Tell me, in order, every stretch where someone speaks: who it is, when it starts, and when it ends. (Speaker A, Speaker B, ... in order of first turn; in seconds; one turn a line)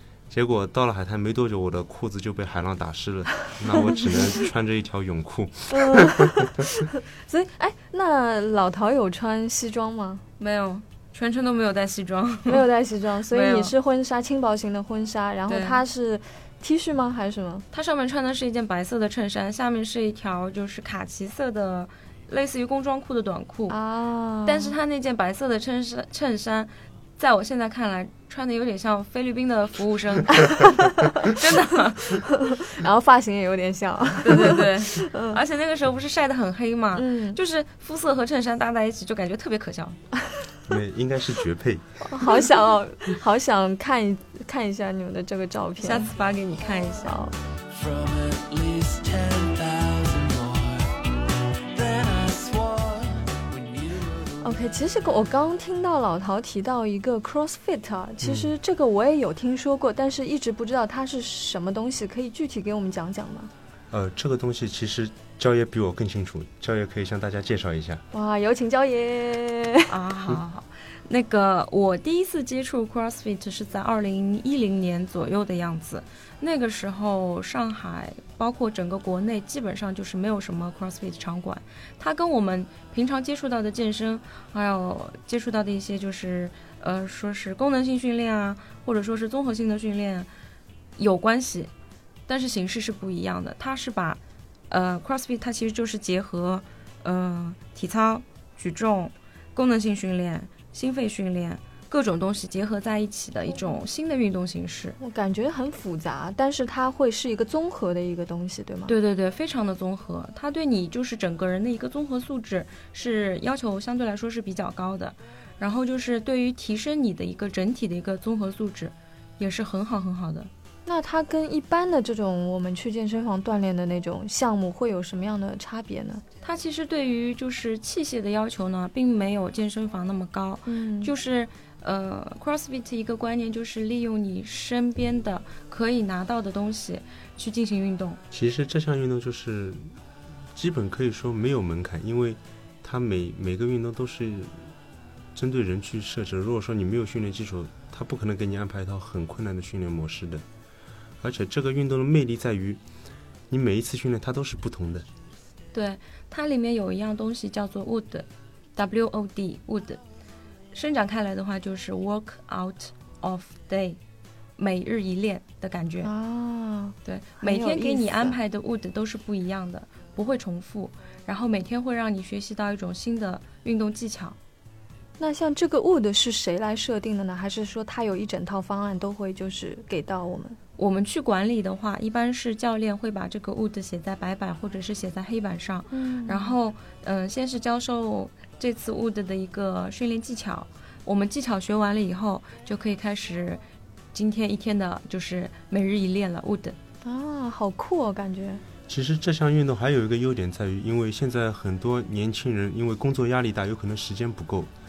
Speaker A: 0.3-6.8
Speaker B: 5.7-10.2
Speaker C: 10.4-12.6
Speaker B: 12.5-17.7
Speaker C: 13.3-13.7
Speaker C: 15.5-15.8
Speaker C: 17.7-23.8
Speaker B: 23.7-24.7
Speaker C: 24.4-32.3
Speaker B: 32.3-35.4
Speaker C: 34.2-40.0
Speaker B: 37.0-37.4
Speaker A: 40.7-42.0
Speaker B: 42.0-46.1
Speaker C: 45.8-47.2
Speaker B: 47.0-47.3
Speaker D: 47.7-51.1
Speaker D: 51.7-54.6
Speaker B: 54.4-63.5
Speaker A: 58.2-58.5
Speaker A: 63.9-68.0
Speaker B: 68.1-69.9
Speaker C: 69.9-90.3
Speaker C: 91.0-91.7
Speaker C: 92.3-105.0
Speaker B: 105.0-108.9
Speaker C: 108.9-120.5
Speaker B: 120.9-126.2
Speaker C: 126.4-138.2
Speaker B: 130.7-131.1
Speaker A: 138.3-139.9
Speaker A: 140.5-144.7
Speaker A: 145.3-150.4
Speaker A: 151.2-152.8
Speaker A: 153.5-155.1
Speaker C: 155.7-160.0
Speaker C: 160.7-164.0
Speaker C: 164.6-166.1
Speaker B: 166.0-168.4
Speaker C: 167.1-174.4
Speaker B: 175.2-180.6
Speaker C: 180.8-193.6
Speaker B: 185.9-186.6
Speaker C: 194.1-196.8
Speaker B: 197.0-198.6
Speaker A: 198.9-204.7